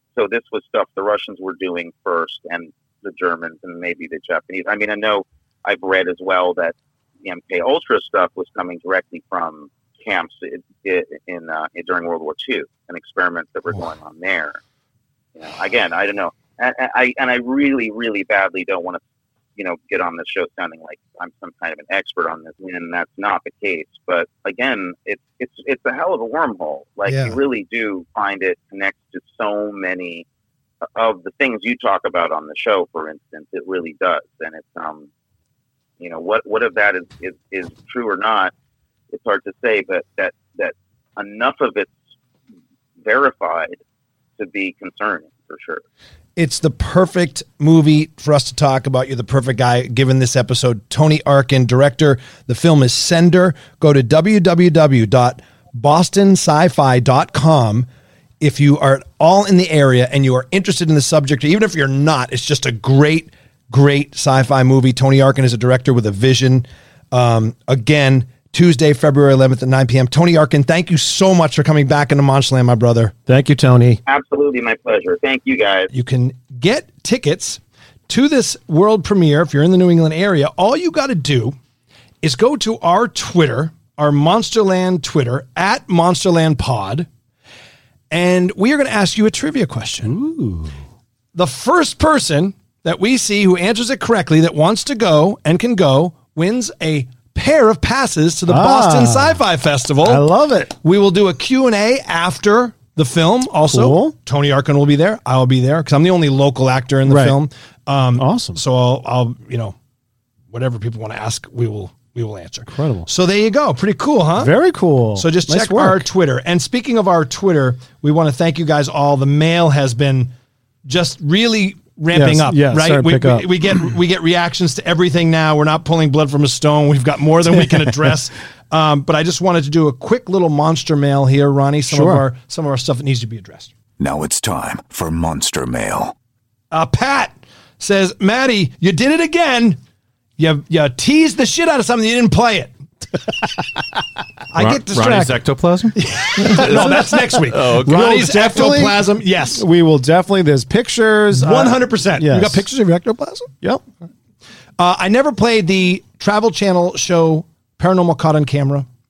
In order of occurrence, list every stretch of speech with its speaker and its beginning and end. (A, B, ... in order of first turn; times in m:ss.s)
0:00.1-0:14.6 A
0:15.4-0:19.0 A
0:19.6-0:30.2 A
0:27.0-0:27.4 B
0:30.9-0:35.1 A
0:36.0-0:38.5 A
0:39.1-0:42.0 A
0:43.0-0:43.8 A
0:44.4-0:45.8 A
0:46.4-0:57.9 B
0:58.4-1:13.1 B
1:13.3-1:14.0 C
1:14.0-1:15.9 A
1:15.9-1:21.6 B
1:22.2-1:27.1 B
1:28.1-1:30.1 B
1:30.0-1:30.7 C
1:31.3-1:40.2 B
1:38.5-1:39.4 C
1:40.0-1:40.7 C
1:40.8-1:49.8 B
1:43.6-1:44.1 C
1:47.0-1:47.4 C
1:48.2-1:48.6 C
1:50.5-1:54.5 B
1:52.7-1:53.1 C
1:54.4-1:56.0 C
1:55.2-2:00.3 B
2:00.8-2:13.7 B
2:02.1-2:03.5 C
2:07.5-2:08.1 C
2:11.9-2:12.2 C
2:14.0-2:16.1 D
2:16.7-2:19.8 B
2:20.4-2:22.7 B
2:24.5-2:25.4 B
2:24.6-2:26.9 E
2:26.0-2:29.6 B
2:26.4-2:29.0 C
2:27.5-2:28.0 E
2:29.5-2:32.6 C
2:31.3-2:33.5 B
2:34.8-2:38.9 B